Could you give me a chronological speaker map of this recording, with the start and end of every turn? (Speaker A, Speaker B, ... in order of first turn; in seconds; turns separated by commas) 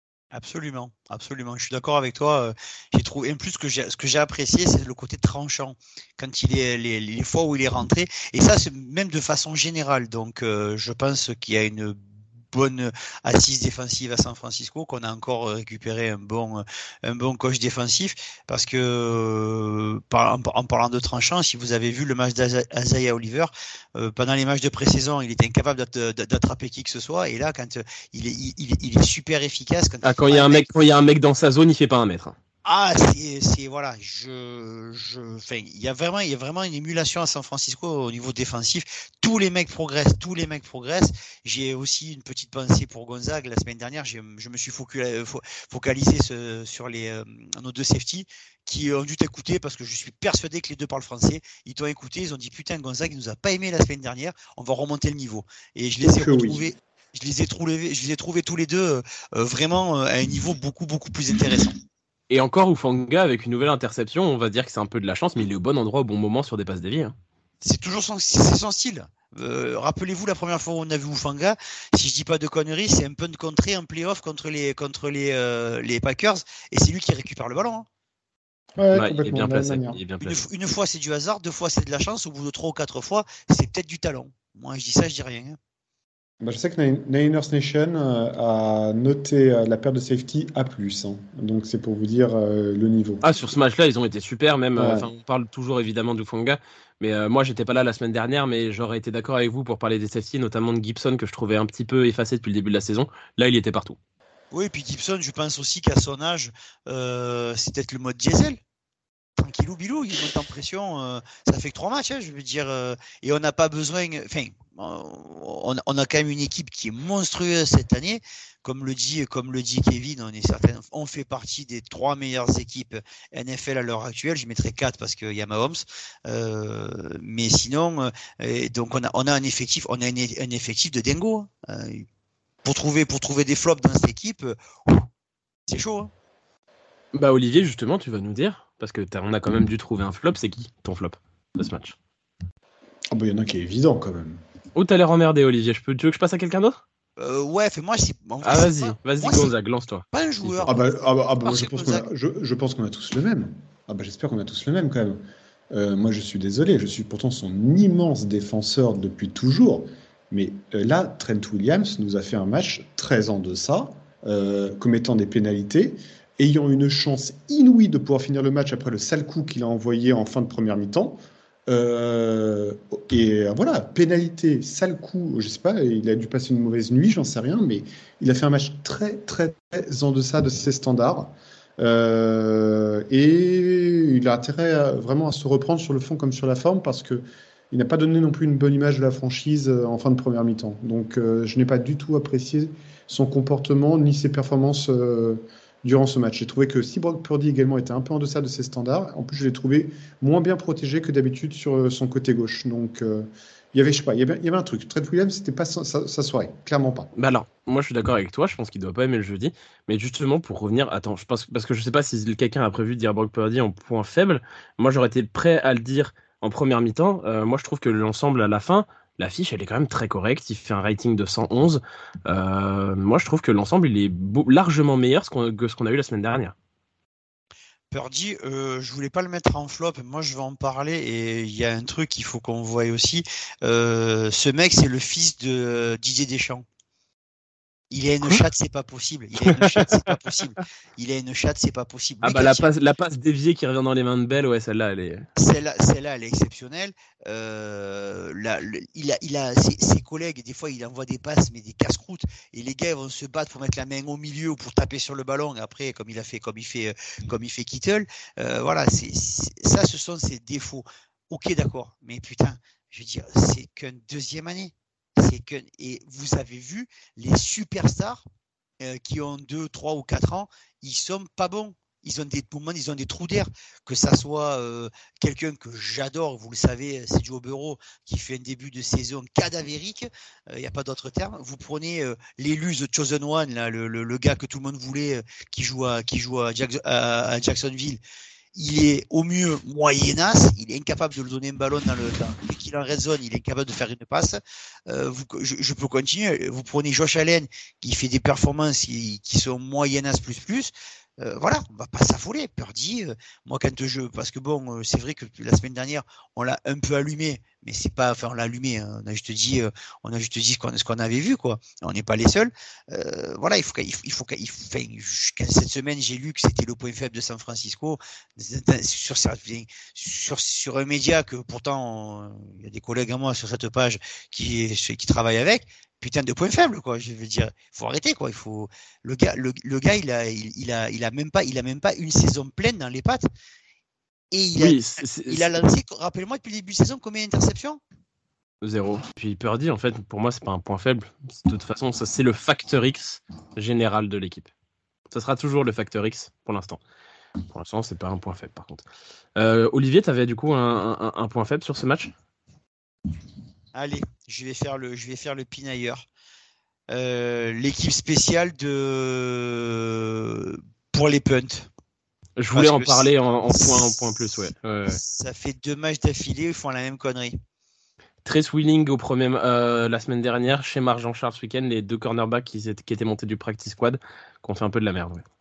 Speaker A: 0.3-12.0, Speaker A: 12.5-30.7, Speaker B: 30.0-32.4, Speaker A: 32.6-61.8, Speaker C: 56.0-56.6, Speaker B: 62.3-67.1, Speaker A: 67.6-77.9, Speaker C: 78.8-80.0, Speaker B: 78.9-80.4, Speaker A: 80.2-85.6, Speaker C: 86.4-93.2, Speaker B: 93.2-104.0, Speaker C: 94.8-95.1, Speaker A: 104.5-108.6, Speaker A: 109.4-132.1, Speaker A: 132.6-135.1, Speaker A: 135.7-136.1, Speaker B: 137.1-142.0, Speaker C: 143.1-144.4, Speaker B: 144.7-146.8, Speaker A: 147.2-149.5, Speaker B: 148.4-150.7, Speaker A: 150.1-150.9, Speaker C: 150.7-155.2, Speaker A: 151.4-152.1, Speaker C: 155.7-207.1, Speaker B: 207.1-226.5, Speaker A: 227.9-236.6, Speaker A: 237.9-242.7, Speaker B: 239.5-240.0, Speaker B: 242.2-245.2, Speaker A: 245.4-268.2, Speaker A: 268.8-288.0, Speaker A: 288.5-333.2, Speaker A: 334.3-337.8, Speaker B: 334.6-335.5, Speaker B: 338.6-344.5, Speaker B: 345.1-346.8, Speaker B: 347.5-348.8, Speaker B: 349.4-352.1, Speaker A: 353.7-356.1, Speaker A: 356.9-361.7, Speaker B: 362.4-365.0, Speaker A: 362.5-363.9, Speaker A: 364.9-367.4, Speaker B: 368.2-375.2